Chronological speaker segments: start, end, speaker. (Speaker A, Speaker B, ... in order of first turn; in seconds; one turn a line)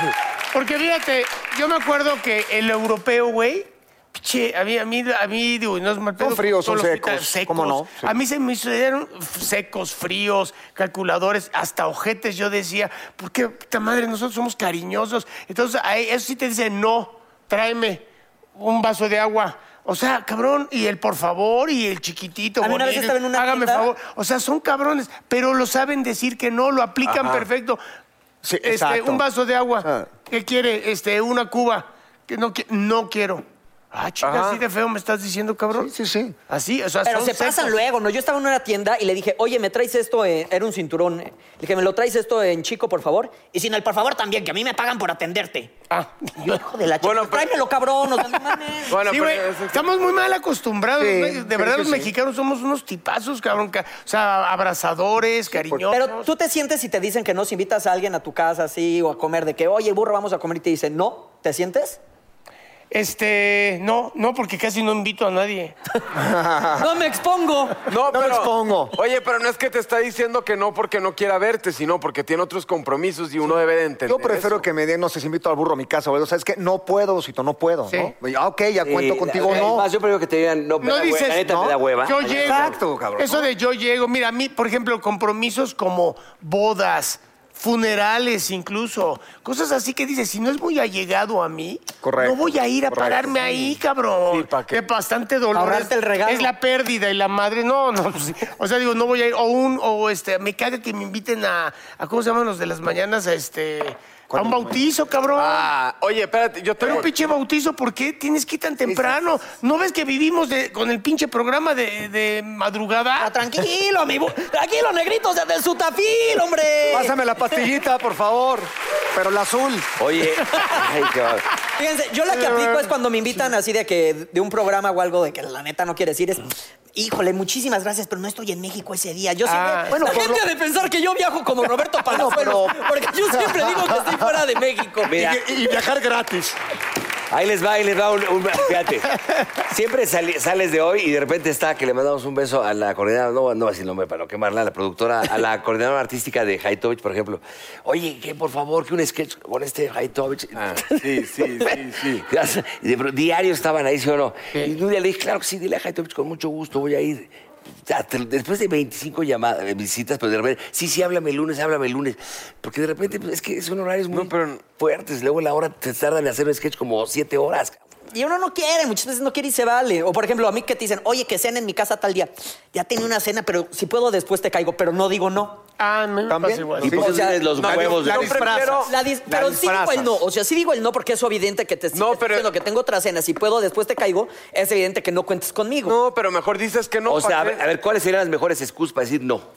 Speaker A: 0.5-18.1
Speaker B: 6.2-8.2
Speaker A: 18.6-27.8
Speaker C: 22.6-23.9
Speaker B: 27.1-27.4
Speaker B: 28.4-29.3
Speaker A: 28.6-35.9
Speaker B: 29.8-30.1
Speaker D: 34.2-34.6
Speaker B: 35.7-36.4
Speaker A: 36.5-37.8
Speaker C: 37.0-45.7
Speaker A: 45.9-46.6
Speaker C: 46.4-49.0
Speaker D: 47.0-47.6
Speaker D: 48.9-50.2
Speaker A: 48.9-56.3
Speaker B: 51.0-52.1
Speaker B: 55.5-55.9
Speaker C: 55.9-62.0
Speaker A: 62.9-65.8
Speaker B: 66.1-67.0
Speaker C: 66.8-67.8
Speaker D: 67.9-74.7
Speaker B: 68.1-69.0
Speaker B: 74.1-79.9
Speaker E: 78.8-82.8
Speaker A: 80.8-105.7
Speaker B: 81.4-83.5
Speaker B: 92.0-93.8
Speaker D: 94.3-94.8
Speaker C: 95.5-96.5
Speaker B: 104.3-104.8
Speaker D: 105.4-107.1
Speaker A: 106.8-113.3
Speaker C: 113.2-117.2
Speaker B: 116.9-119.9
Speaker E: 120.0-121.5
Speaker C: 121.8-135.1
Speaker A: 122.3-122.9
Speaker A: 129.4-130.2
Speaker B: 129.9-130.5
Speaker B: 132.1-134.3
Speaker E: 135.1-135.4
Speaker B: 135.1-136.6
Speaker E: 137.3-139.1
Speaker E: 139.7-157.3
Speaker D: 150.6-152.3
Speaker E: 157.9-167.8
Speaker D: 164.1-164.7
Speaker C: 168.1-175.6
Speaker A: 175.8-177.0
Speaker B: 176.3-180.2
Speaker E: 176.8-178.7
Speaker C: 177.0-177.5
Speaker D: 177.6-178.9
Speaker C: 178.8-186.0
Speaker D: 181.9-182.5
Speaker D: 185.8-187.6
Speaker E: 187.1-189.5